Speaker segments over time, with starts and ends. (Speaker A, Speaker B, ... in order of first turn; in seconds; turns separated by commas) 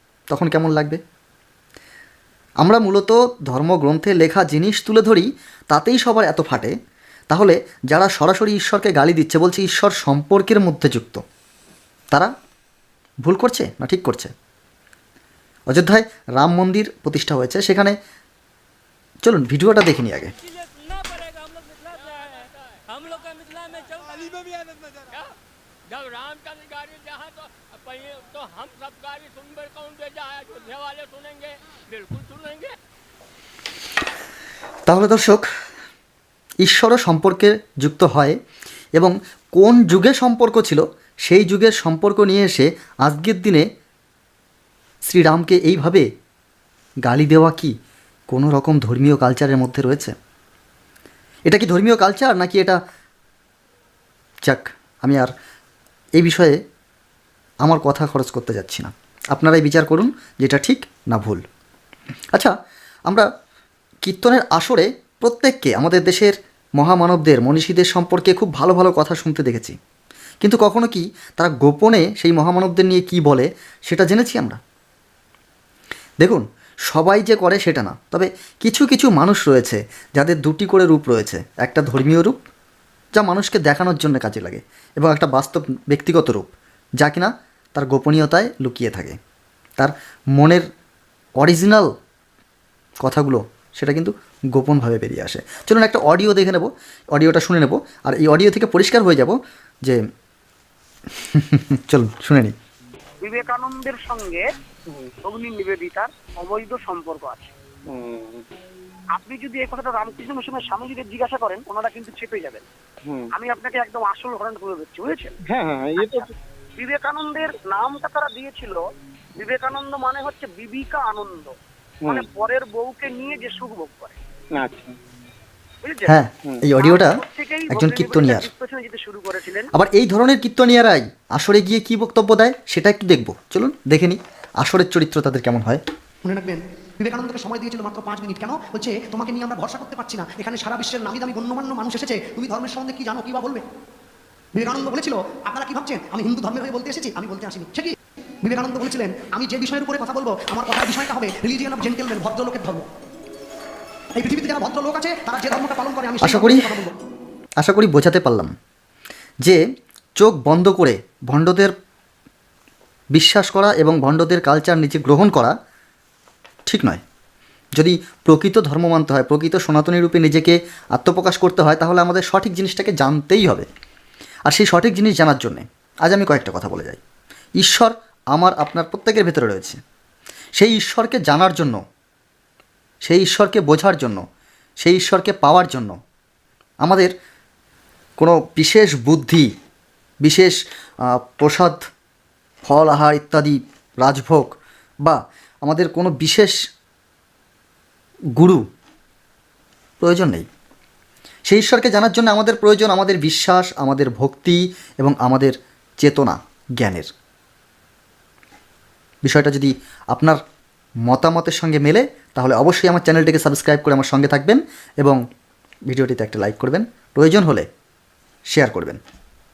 Speaker A: 0.3-1.0, Speaker A: 2.6-6.7, Speaker A: 7.3-11.2, Speaker A: 13.2-14.3, Speaker A: 15.7-17.9, Speaker A: 19.2-20.3, Speaker B: 20.5-25.3, Speaker B: 25.9-32.8, Speaker A: 34.9-35.5, Speaker A: 36.6-38.4, Speaker A: 39.0-43.6, Speaker A: 45.0-46.0, Speaker A: 47.0-47.7, Speaker A: 48.3-50.1, Speaker A: 51.5-52.8, Speaker A: 54.4-55.3, Speaker A: 56.1-56.6, Speaker A: 57.6-61.4, Speaker A: 64.0-69.8, Speaker A: 70.4-74.6, Speaker A: 76.2-82.4, Speaker A: 83.2-89.2, Speaker A: 89.8-90.6, Speaker A: 91.4-91.9, Speaker A: 93.0-100.0, Speaker A: 101.3-102.5, Speaker C: 103.2-104.5, Speaker C: 105.2-107.5, Speaker D: 107.9-108.4, Speaker C: 109.1-112.7, Speaker D: 113.0-113.3, Speaker C: 113.3-115.3, Speaker D: 115.5-116.3, Speaker C: 116.0-116.3, Speaker C: 116.8-118.8, Speaker C: 119.4-121.5, Speaker C: 122.1-124.2, Speaker D: 124.5-125.0, Speaker C: 125.8-126.1, Speaker A: 126.1-128.5, Speaker C: 126.8-129.7, Speaker A: 129.7-135.8, Speaker E: 136.2-143.6, Speaker E: 144.5-152.8, Speaker E: 154.2-156.9, Speaker A: 156.2-156.7, Speaker A: 157.6-158.5, Speaker A: 160.2-161.7, Speaker A: 163.1-165.5, Speaker A: 166.7-167.0, Speaker A: 167.8-173.7, Speaker A: 174.4-177.0, Speaker A: 177.6-179.8, Speaker A: 180.6-181.8, Speaker A: 183.0-184.2, Speaker A: 184.8-186.0, Speaker A: 186.8-187.1, Speaker A: 188.2-189.5, Speaker A: 190.2-190.6, Speaker A: 191.1-191.8, Speaker A: 192.6-194.5, Speaker A: 195.0-196.5, Speaker A: 198.4-198.6, Speaker A: 200.0-200.4, Speaker A: 201.5-207.1, Speaker A: 209.2-210.4, Speaker A: 211.1-215.2, Speaker A: 215.9-217.7, Speaker A: 218.5-219.0